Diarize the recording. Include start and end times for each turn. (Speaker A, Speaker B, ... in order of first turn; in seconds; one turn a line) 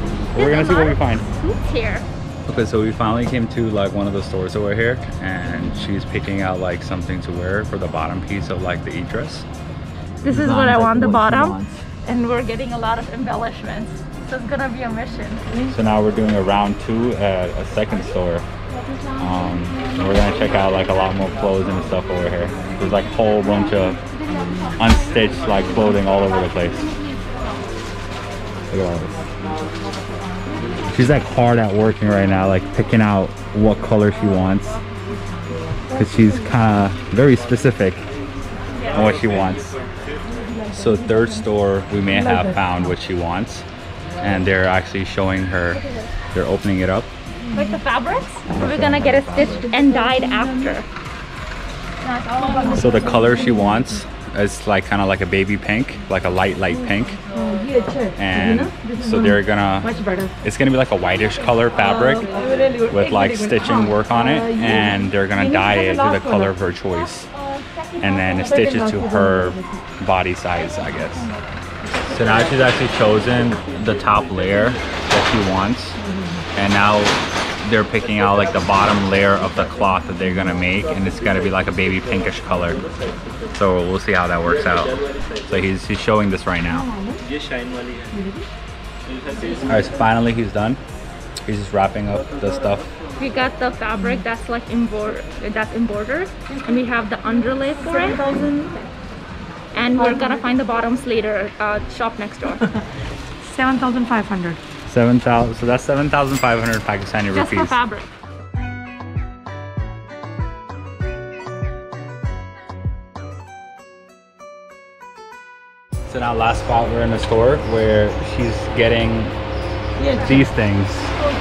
Speaker A: 0.3-1.2
Speaker B: 0.3-2.1
Speaker A: 2.5-9.5
Speaker B: 10.2-15.6
Speaker C: 10.3-11.7
Speaker A: 15.7-18.5
Speaker A: 19.2-24.0
Speaker A: 24.8-26.9
Speaker A: 28.7-29.2
Speaker A: 30.9-34.8
Speaker A: 36.0-38.0
Speaker A: 38.9-39.8
Speaker A: 40.7-43.7
Speaker A: 44.2-47.1
Speaker B: 47.5-50.9
Speaker A: 48.6-49.5
Speaker B: 52.0-53.3
Speaker A: 52.7-57.2
Speaker C: 57.6-59.1
Speaker A: 58.2-62.3
Speaker C: 59.9-60.3
Speaker C: 62.5-64.7
Speaker A: 62.9-67.3
Speaker C: 65.5-66.3
Speaker A: 68.0-71.3
Speaker C: 68.6-69.6
Speaker A: 72.1-76.0
Speaker A: 76.5-82.8
Speaker A: 83.5-86.9
Speaker C: 86.9-87.2
Speaker C: 88.2-88.5
Speaker A: 89.7-90.8
Speaker A: 91.5-92.9
Speaker B: 93.2-98.2
Speaker C: 97.9-98.8
Speaker B: 99.7-102.7
Speaker C: 103.4-104.6
Speaker A: 104.9-107.8
Speaker B: 107.3-108.1
Speaker A: 116.1-119.3
Speaker C: 120.0-120.3
Speaker A: 120.2-121.1